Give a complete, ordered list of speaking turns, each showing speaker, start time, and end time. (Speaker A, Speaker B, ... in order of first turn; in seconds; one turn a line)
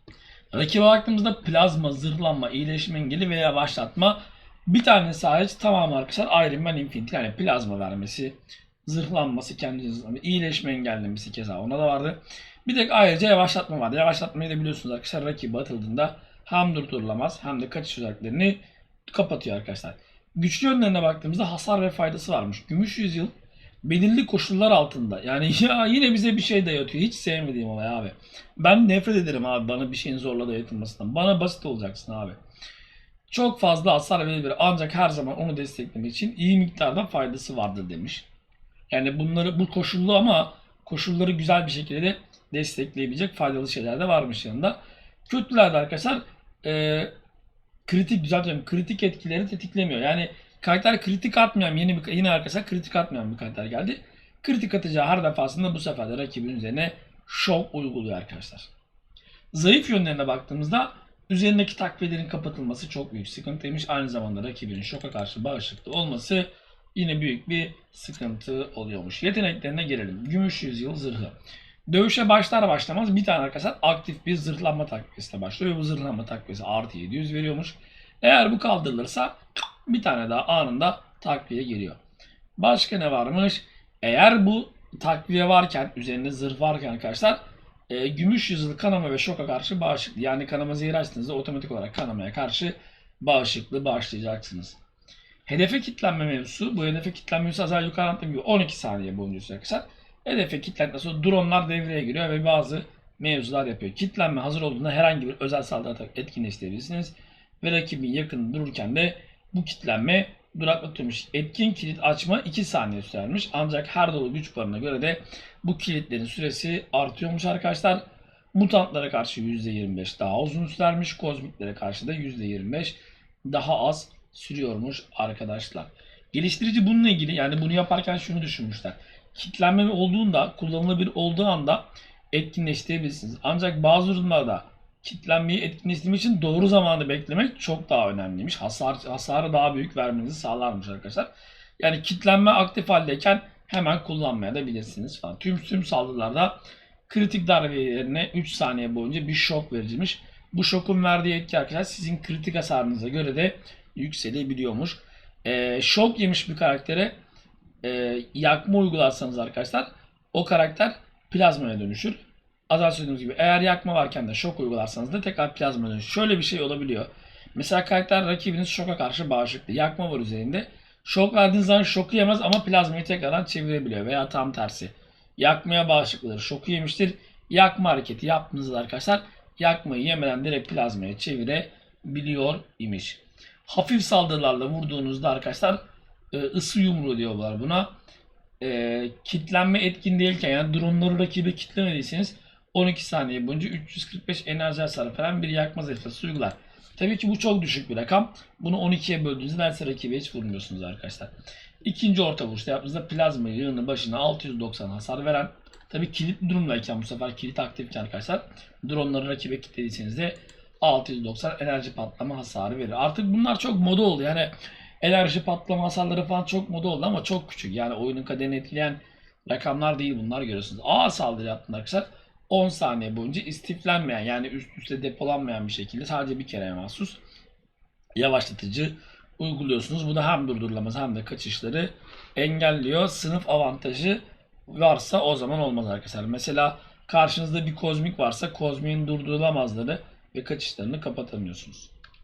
Speaker A: 0.5-23.3
Speaker A: 23.8-32.4
Speaker A: 33.3-38.2
Speaker A: 38.9-47.1
Speaker A: 47.9-58.7
Speaker A: 59.5-71.3
Speaker A: 71.9-82.0
Speaker A: 82.6-94.8
Speaker A: 95.5-118.0
Speaker A: 118.5-141.3
Speaker A: 141.8-157.1
Speaker A: 157.8-185.8
Speaker A: 186.3-187.9
Speaker A: 188.6-201.3
Speaker A: 201.8-227.2
Speaker A: 228.2-241.9